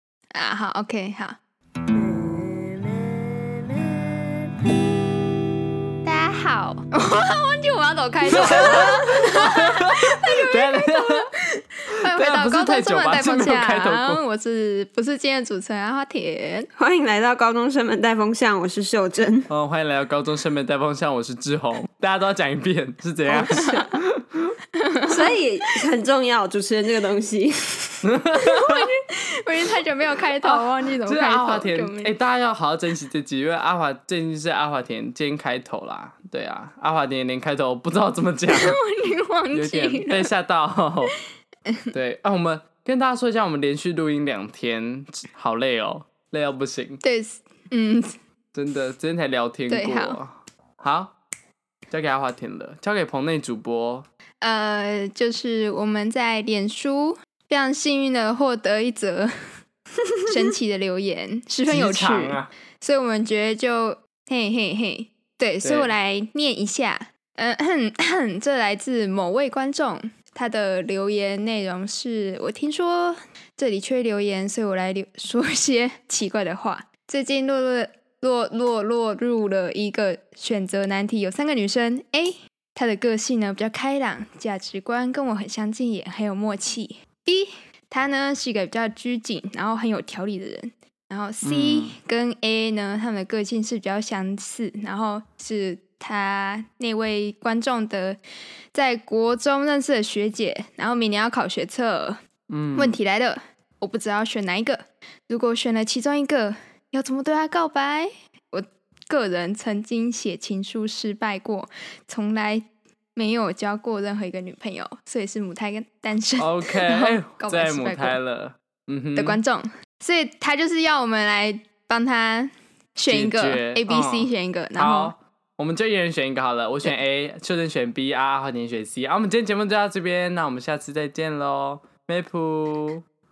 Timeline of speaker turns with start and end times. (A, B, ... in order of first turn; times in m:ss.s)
0:00.3-0:01.4 A
0:01.9-0:04.5 B
0:06.0-0:11.3 A
0:08.3-0:08.9 B
0:08.3-0:11.3 C
0:11.9-0:16.7 A
0:11.9-0:14.2 C
0:16.8-0:19.5 B
0:19.5-0:24.6 C
0:23.3-0:23.9 B
0:23.4-0:23.8 A
0:24.8-0:25.3 A
0:25.1-0:28.0 B
0:28.0-0:28.9 C
0:28.5-0:32.1 A
0:30.4-0:38.8 C
0:38.5-0:40.3 A
0:39.5-0:41.1 C
0:41.9-0:47.0 C
0:47.0-0:48.1 A
0:48.5-0:51.1 C
0:49.7-0:50.2 A
0:51.9-0:54.1 C
0:54.4-0:59.3 A
1:00.2-1:38.2 A
1:01.7-1:02.5 C
1:05.6-1:05.9 C
1:31.4-1:32.0 C
1:38.7-1:42.2 A
1:42.5-1:43.0 C
1:42.7-1:58.2 A
1:56.4-1:59.4 C
1:59.2-2:05.1 A
2:03.1-2:13.0 C